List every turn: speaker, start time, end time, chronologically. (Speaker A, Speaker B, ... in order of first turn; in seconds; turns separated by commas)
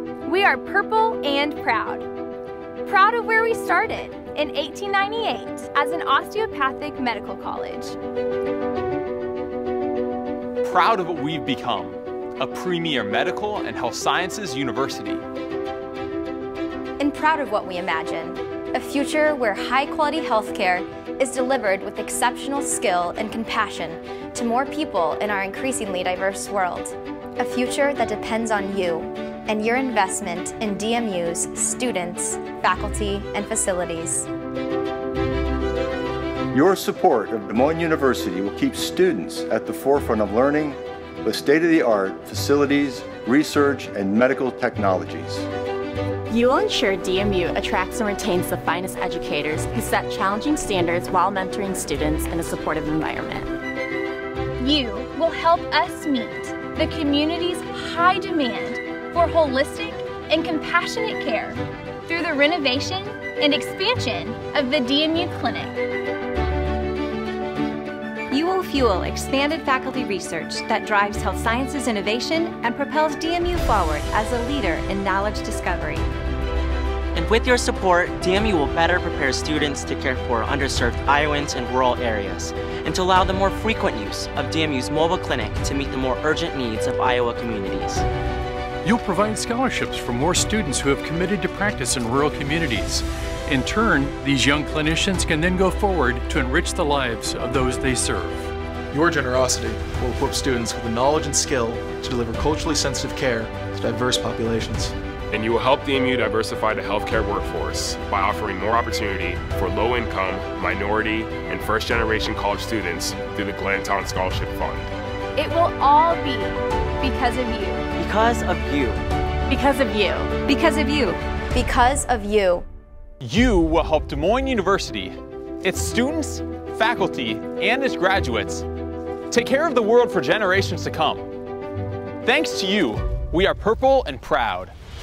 Speaker A: 0.2-2.1, Speaker A: 2.8-8.0, Speaker B: 10.6-15.2, Speaker C: 17.0-34.3, Speaker D: 36.5-45.5, Speaker E: 46.3-53.5, Speaker A: 54.6-65.8, Speaker F: 68.3-76.0, Speaker G: 77.2-88.0, Speaker H: 88.8-98.5, Speaker I: 98.9-104.9, Speaker J: 105.3-114.9, Speaker A: 115.4-117.8, Speaker G: 118.0-119.0, Speaker E: 119.5-120.3, Speaker F: 120.4-121.2, Speaker C: 121.5-122.7, Speaker B: 123.2-128.7, Speaker B: 129.3-131.2, Speaker B: 132.2-134.7